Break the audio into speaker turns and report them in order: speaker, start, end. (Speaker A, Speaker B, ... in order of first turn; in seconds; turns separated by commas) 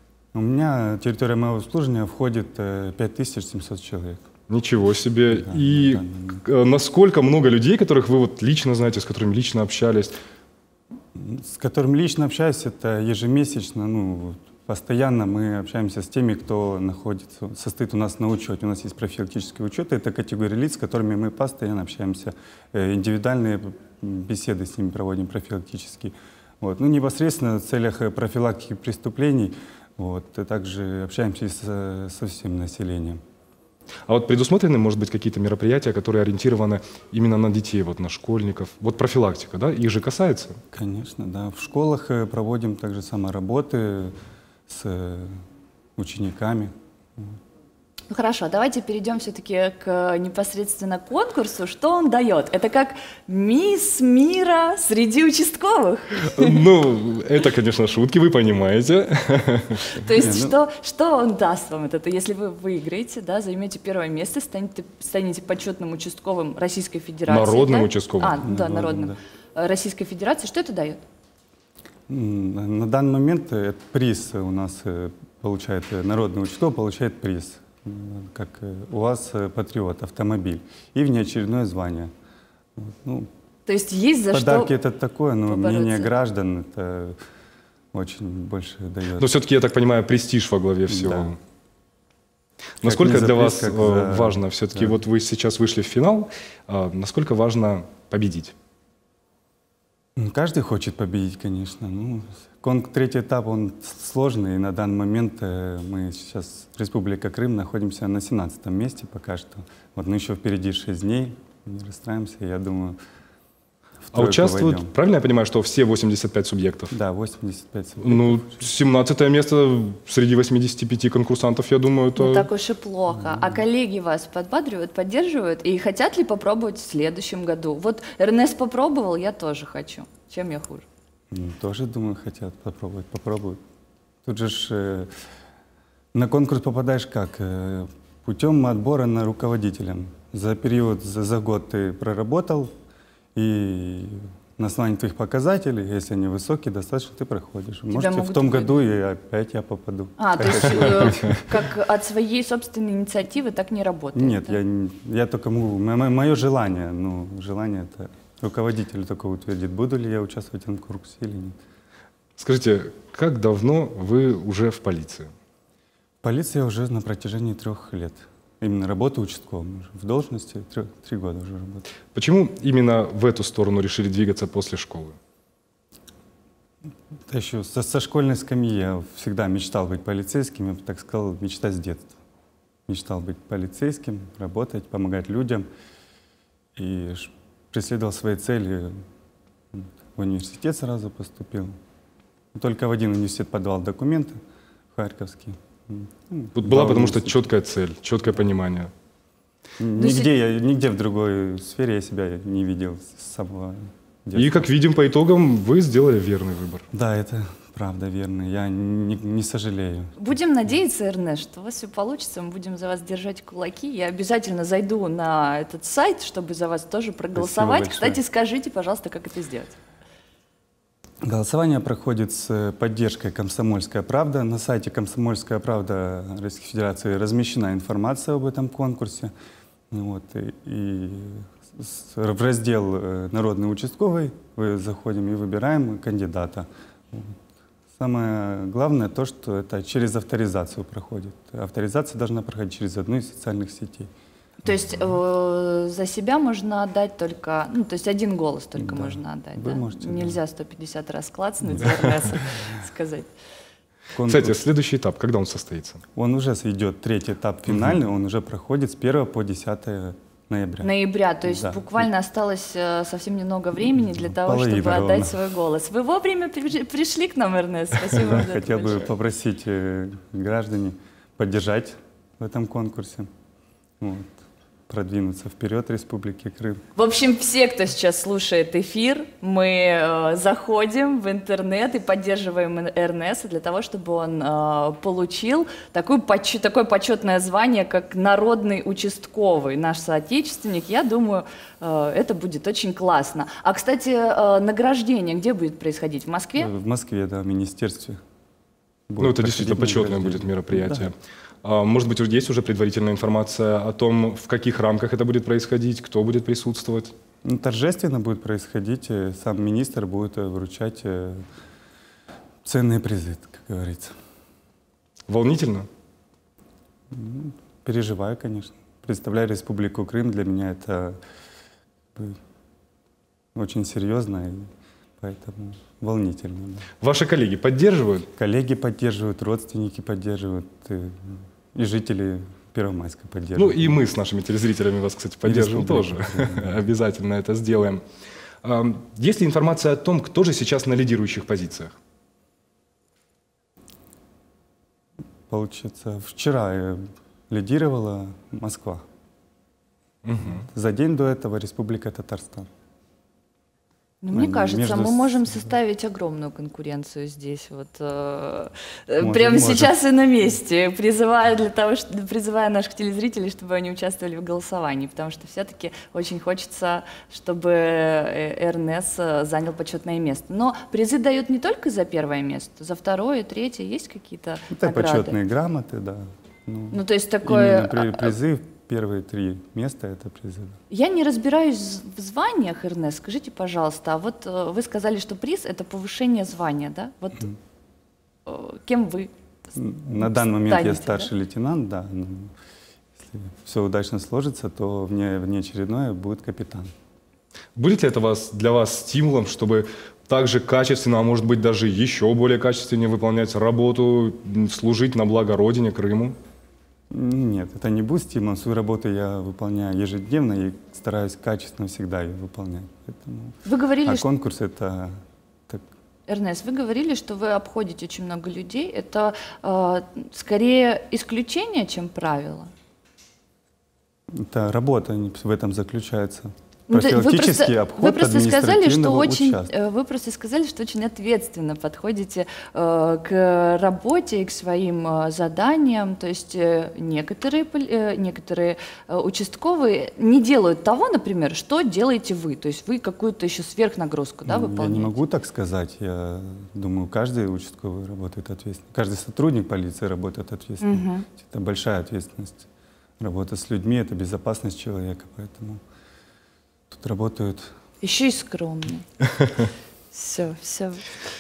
Speaker A: 0.3-4.2, Speaker B: 4.5-10.1, Speaker A: 5.3-6.4, Speaker A: 11.2-33.2, Speaker B: 34.1-40.6, Speaker A: 40.7-44.1, Speaker A: 44.7-45.4, Speaker A: 46.0-47.4, Speaker C: 48.1-56.6, Speaker B: 56.2-60.0, Speaker C: 60.0-71.0, Speaker A: 60.1-60.6, Speaker B: 67.3-68.4, Speaker A: 68.4-69.2, Speaker A: 72.1-82.1, Speaker A: 82.8-83.3, Speaker C: 83.7-84.7, Speaker A: 84.3-87.2, Speaker C: 85.5-86.1, Speaker A: 87.9-89.3, Speaker B: 89.2-91.4, Speaker A: 90.9-91.4, Speaker B: 92.8-98.5, Speaker A: 92.8-95.0, Speaker A: 100.2-113.0, Speaker A: 114.1-114.9, Speaker B: 114.1-116.9, Speaker A: 116.9-118.7, Speaker B: 118.0-122.5, Speaker C: 122.2-130.9, Speaker A: 123.1-123.6, Speaker A: 131.3-133.6, Speaker A: 134.2-135.1, Speaker A: 136.1-142.7, Speaker A: 143.3-151.5, Speaker C: 147.9-148.9, Speaker C: 150.2-154.6, Speaker A: 154.1-161.6, Speaker B: 162.4-165.3, Speaker A: 166.2-171.9, Speaker B: 172.1-175.2, Speaker A: 177.3-182.2, Speaker A: 182.9-185.7, Speaker A: 186.8-189.0, Speaker A: 189.7-191.7, Speaker A: 192.5-194.4, Speaker A: 194.9-197.5, Speaker B: 196.6-198.9, Speaker A: 199.8-204.7, Speaker C: 200.0-200.3, Speaker B: 204.3-206.9, Speaker A: 206.9-210.2, Speaker C: 210.2-219.8, Speaker A: 217.3-218.2, Speaker A: 221.2-229.3, Speaker A: 229.9-237.4, Speaker A: 237.9-244.1, Speaker C: 244.6-253.3, Speaker A: 248.8-250.4, Speaker A: 254.1-254.6, Speaker B: 254.2-256.0, Speaker A: 256.2-262.1, Speaker C: 260.8-269.1, Speaker A: 263.9-265.4, Speaker A: 268.1-273.3, Speaker A: 274.0-274.3, Speaker A: 274.9-276.8, Speaker C: 277.0-296.7, Speaker A: 296.6-298.2, Speaker A: 299.1-301.1, Speaker B: 299.2-307.1, Speaker A: 307.4-311.4, Speaker A: 312.6-314.2, Speaker B: 315.3-315.9, Speaker A: 317.1-321.2, Speaker A: 323.6-326.9, Speaker B: 327.0-328.3, Speaker A: 328.4-334.0, Speaker B: 333.6-338.0, Speaker A: 335.4-336.8, Speaker B: 338.6-342.0, Speaker A: 345.5-349.0, Speaker B: 350.2-350.7, Speaker A: 350.4-352.7, Speaker C: 354.2-375.4, Speaker A: 354.3-355.7, Speaker A: 359.2-360.0, Speaker A: 374.7-380.8, Speaker C: 376.9-378.4, Speaker C: 380.9-387.5, Speaker C: 388.5-389.3, Speaker A: 389.8-392.5, Speaker C: 390.1-391.3, Speaker A: 393.2-396.9, Speaker B: 397.8-406.4, Speaker A: 407.1-415.8, Speaker C: 413.6-414.3, Speaker C: 416.3-422.7, Speaker A: 424.3-429.7, Speaker C: 426.9-445.2, Speaker A: 444.5-452.7, Speaker C: 450.8-451.3, Speaker A: 453.2-455.8, Speaker A: 456.9-457.7, Speaker C: 458.0-459.1, Speaker B: 459.4-459.7, Speaker C: 460.1-461.1